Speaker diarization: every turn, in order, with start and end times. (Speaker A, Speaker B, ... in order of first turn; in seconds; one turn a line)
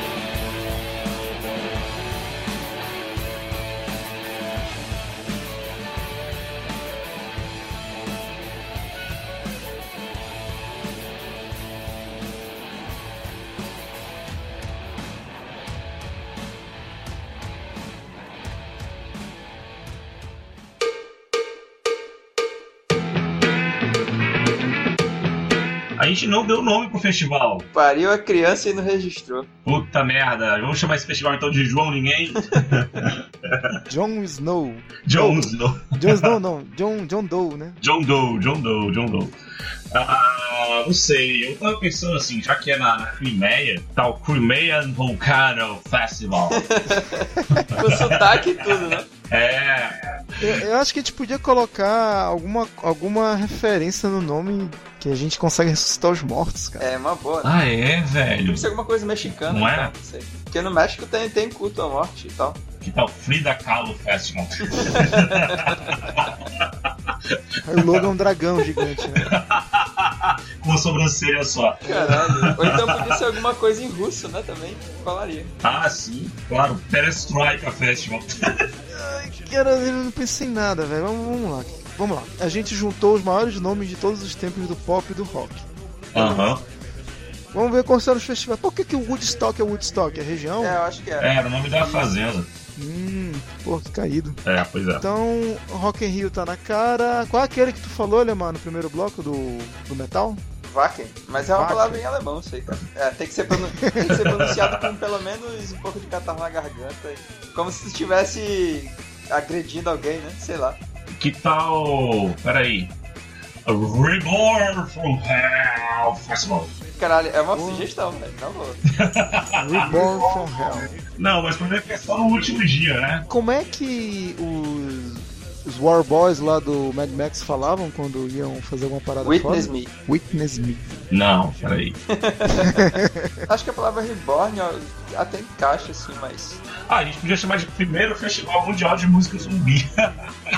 Speaker A: 26.0-27.7
Speaker B: 27.7-29.5
Speaker A: 29.6-33.7
Speaker C: 33.9-37.8
Speaker A: 35.1-36.4
Speaker A: 37.8-39.3
Speaker A: 39.9-46.7
Speaker B: 46.5-49.1
Speaker A: 47.5-50.6
Speaker C: 50.4-56.9
Speaker B: 56.8-57.5
Speaker A: 57.4-58.7
Speaker B: 58.5-62.6
Speaker A: 59.3-59.9
Speaker A: 62.8-66.3
Speaker B: 64.7-65.9
Speaker C: 67.6-69.3
Speaker A: 67.7-68.1
Speaker A: 69.0-73.4
Speaker B: 71.8-75.5
Speaker C: 71.9-72.2
Speaker A: 75.6-78.5
Speaker C: 78.9-86.5
Speaker A: 86.1-86.6
Speaker C: 87.5-90.8
Speaker B: 90.6-91.3
Speaker A: 91.2-92.5
Speaker B: 91.8-92.1
Speaker C: 92.8-94.4
Speaker A: 94.5-95.1
Speaker C: 95.0-100.4
Speaker B: 100.7-110.8
Speaker C: 101.5-102.0
Speaker C: 103.8-104.1
Speaker A: 104.1-104.9
Speaker A: 111.1-112.9
Speaker A: 113.7-116.7
Speaker B: 117.0-118.8
Speaker C: 117.5-117.9
Speaker A: 118.9-123.2
Speaker C: 119.6-120.9
Speaker C: 123.3-130.9
Speaker B: 129.2-129.9
Speaker A: 131.1-132.0
Speaker B: 132.1-136.6
Speaker C: 132.6-133.4
Speaker A: 136.7-140.1